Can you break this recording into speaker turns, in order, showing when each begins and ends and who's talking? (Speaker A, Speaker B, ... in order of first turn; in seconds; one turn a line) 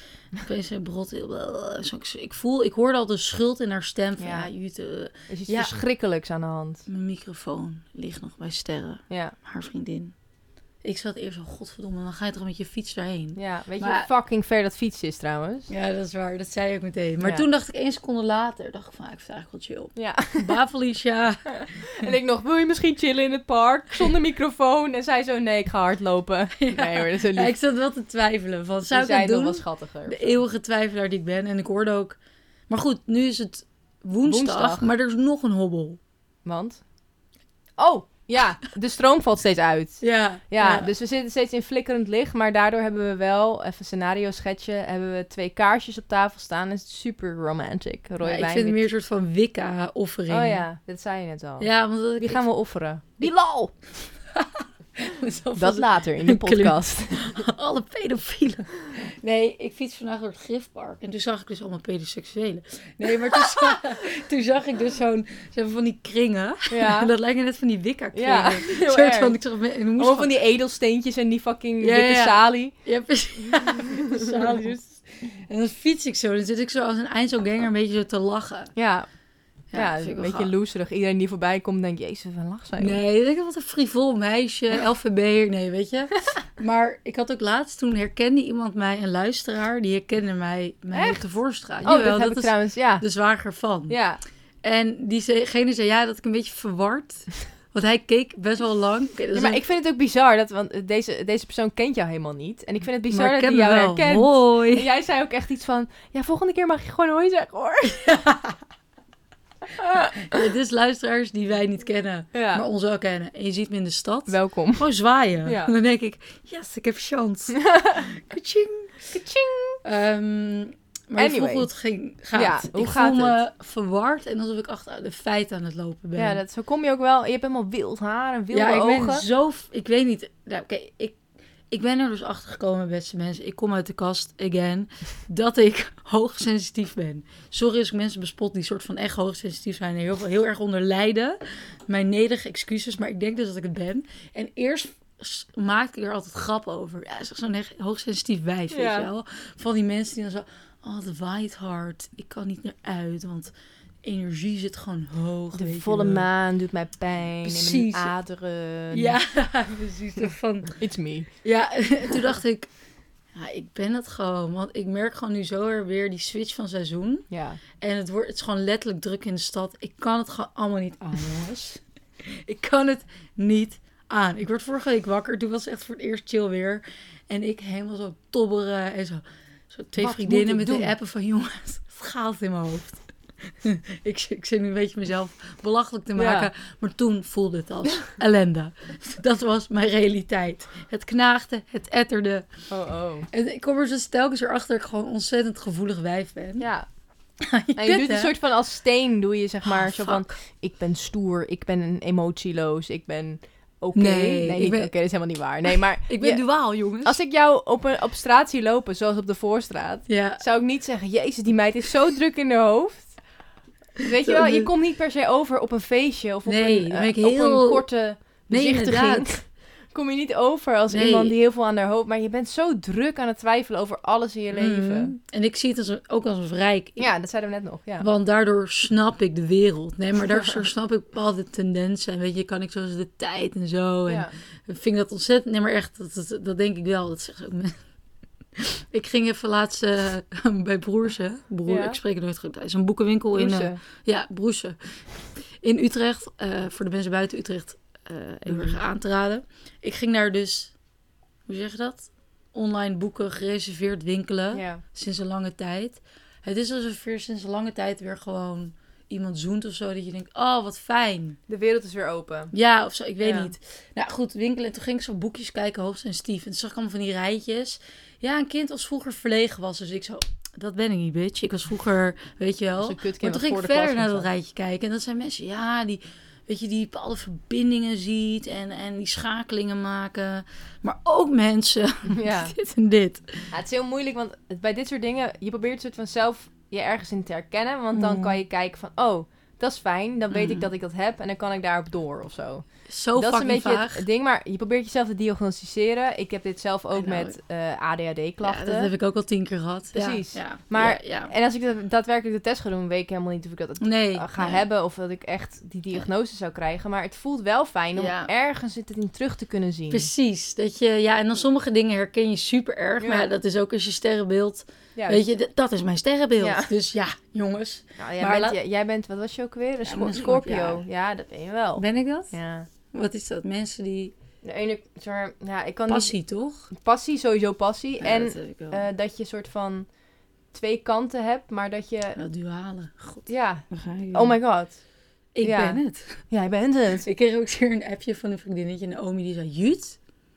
Speaker A: 0.3-5.8
Speaker B: 4.2-4.5
Speaker B: 5.3-6.8
Speaker A: 6.9-10.2
Speaker B: 9.1-9.3
Speaker A: 10.8-14.1
Speaker B: 13.3-15.7
Speaker A: 15.7-22.1
Speaker B: 19.9-20.6
Speaker B: 21.6-27.5
Speaker A: 26.6-36.0
Speaker B: 28.9-30.3
Speaker B: 34.2-34.9
Speaker B: 36.4-37.0
Speaker B: 37.8-48.9
Speaker A: 40.0-40.9
Speaker A: 48.2-50.7
Speaker B: 50.3-54.1
Speaker A: 51.6-52.6
Speaker A: 54.4-70.4
Speaker B: 55.5-57.5
Speaker B: 66.7-67.1
Speaker B: 68.1-72.8
Speaker A: 71.8-78.8
Speaker B: 78.7-83.0
Speaker A: 79.7-80.5
Speaker A: 82.8-94.0
Speaker B: 90.9-93.0
Speaker B: 93.9-94.2
Speaker A: 94.6-99.6
Speaker B: 99.3-108.3
Speaker A: 103.1-104.8
Speaker A: 108.3-108.5
Speaker A: 110.2-119.1
Speaker B: 112.3-112.6
Speaker B: 114.3-114.9
Speaker B: 115.4-115.7
Speaker B: 117.7-118.0
Speaker B: 119.1-119.8
Speaker A: 119.8-126.4
Speaker B: 121.2-121.7
Speaker B: 122.3-123.4
Speaker B: 126.1-129.2
Speaker A: 128.5-156.3
Speaker B: 148.7-149.1
Speaker B: 155.5-159.4
Speaker A: 157.4-158.1
Speaker A: 158.9-162.8
Speaker B: 160.8-161.4
Speaker A: 163.3-192.7
Speaker B: 167.3-167.6
Speaker B: 180.0-180.9
Speaker B: 186.1-186.5
Speaker B: 192.7-193.3
Speaker A: 193.3-196.7
Speaker B: 196.6-196.9
Speaker A: 197.4-198.3
Speaker B: 197.7-213.4
Speaker A: 199.6-200.3
Speaker A: 203.9-205.0
Speaker A: 206.1-207.2
Speaker A: 210.1-210.4
Speaker B: 214.0-225.1
Speaker A: 214.3-214.7
Speaker A: 216.4-219.4
Speaker A: 220.9-221.3
Speaker A: 224.5-227.2
Speaker B: 227.0-228.1
Speaker A: 228.0-237.9
Speaker B: 234.1-234.3
Speaker A: 238.6-250.8
Speaker B: 241.7-242.0
Speaker B: 243.3-243.8
Speaker B: 248.4-248.8
Speaker A: 251.4-261.4
Speaker B: 254.5-254.8
Speaker B: 261.5-262.5
Speaker A: 262.5-283.5
Speaker B: 263.2-263.5
Speaker B: 272.8-274.3
Speaker B: 282.1-282.5
Speaker B: 283.5-298.9
Speaker A: 287.9-288.4
Speaker A: 290.3-290.7
Speaker A: 292.9-294.0
Speaker A: 296.9-297.4
Speaker A: 298.4-301.3
Speaker B: 299.9-310.1
Speaker A: 303.8-304.6
Speaker A: 308.0-308.3
Speaker A: 309.9-318.6
Speaker B: 313.0-313.3
Speaker B: 314.9-315.2
Speaker B: 316.4-316.7
Speaker B: 318.0-322.7
Speaker A: 319.9-320.8
Speaker A: 321.8-324.1
Speaker B: 324.4-332.2
Speaker A: 325.9-326.7
Speaker A: 328.0-328.8
Speaker A: 332.2-334.6
Speaker B: 333.2-337.1
Speaker A: 335.3-336.3
Speaker A: 337.0-340.0